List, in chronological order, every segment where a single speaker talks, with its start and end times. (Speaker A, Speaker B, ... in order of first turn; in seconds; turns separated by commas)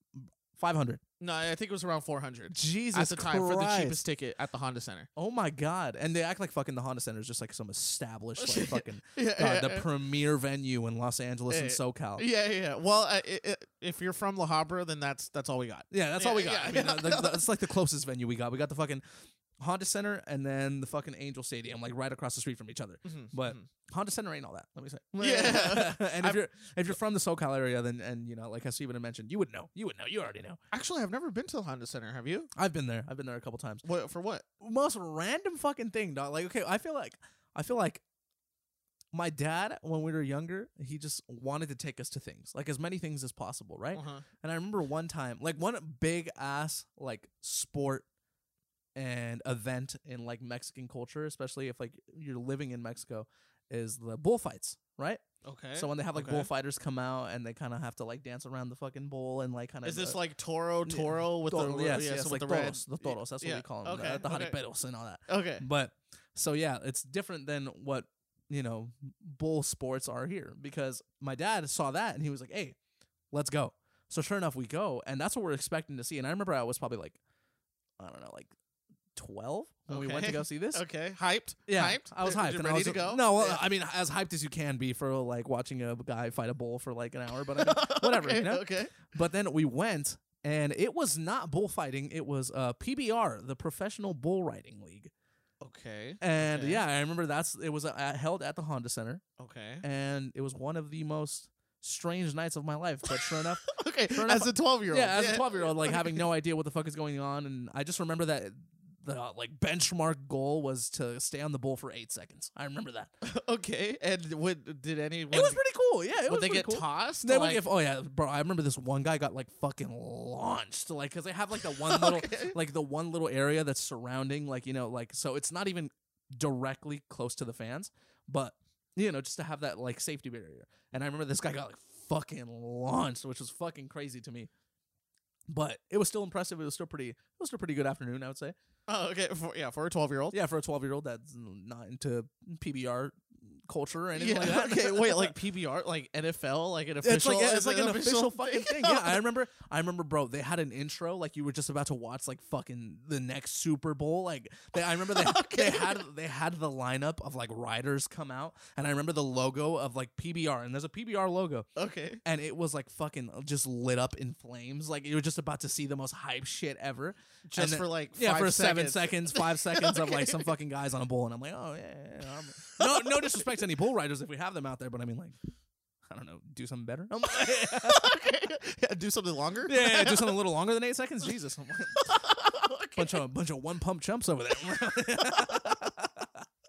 Speaker A: 0.1-1.0, Speaker B: 1.2-5.1, Speaker A: 2.5-4.0, Speaker A: 5.2-12.2, Speaker B: 8.4-9.9, Speaker B: 11.5-17.4, Speaker A: 15.9-19.0, Speaker A: 19.6-30.6, Speaker B: 23.0-23.6, Speaker B: 25.2-26.4, Speaker B: 30.7-32.5, Speaker A: 32.5-33.8, Speaker B: 33.8-34.4, Speaker A: 34.6-38.0, Speaker A: 39.1-48.0, Speaker B: 43.9-44.2, Speaker A: 49.0-60.2, Speaker B: 55.4-56.5, Speaker B: 59.8-64.6, Speaker A: 60.9-72.8, Speaker B: 65.3-65.6, Speaker A: 73.3-77.2, Speaker A: 78.0-78.5, Speaker A: 79.1-80.8, Speaker B: 79.9-83.6, Speaker A: 81.7-95.1, Speaker B: 87.5-88.9, Speaker B: 95.6-96.8, Speaker A: 96.2-99.2, Speaker B: 99.4-99.8, Speaker A: 99.8-113.1, Speaker B: 103.1-106.2, Speaker B: 113.2-115.6, Speaker A: 115.3-134.5, Speaker B: 116.3-117.6, Speaker B: 121.6-122.5, Speaker A: 135.5-138.5, Speaker B: 138.9-140.3, Speaker A: 140.3-145.3, Speaker B: 144.2-149.2, Speaker A: 147.0-161.7, Speaker B: 154.7-156.0, Speaker B: 161.8-162.2, Speaker A: 162.2-175.3, Speaker B: 167.4-170.4, Speaker B: 172.7-173.4, Speaker A: 176.1-178.2, Speaker B: 177.3-180.4, Speaker A: 179.7-182.1, Speaker B: 182.0-183.2, Speaker A: 182.9-186.4, Speaker B: 185.2-185.9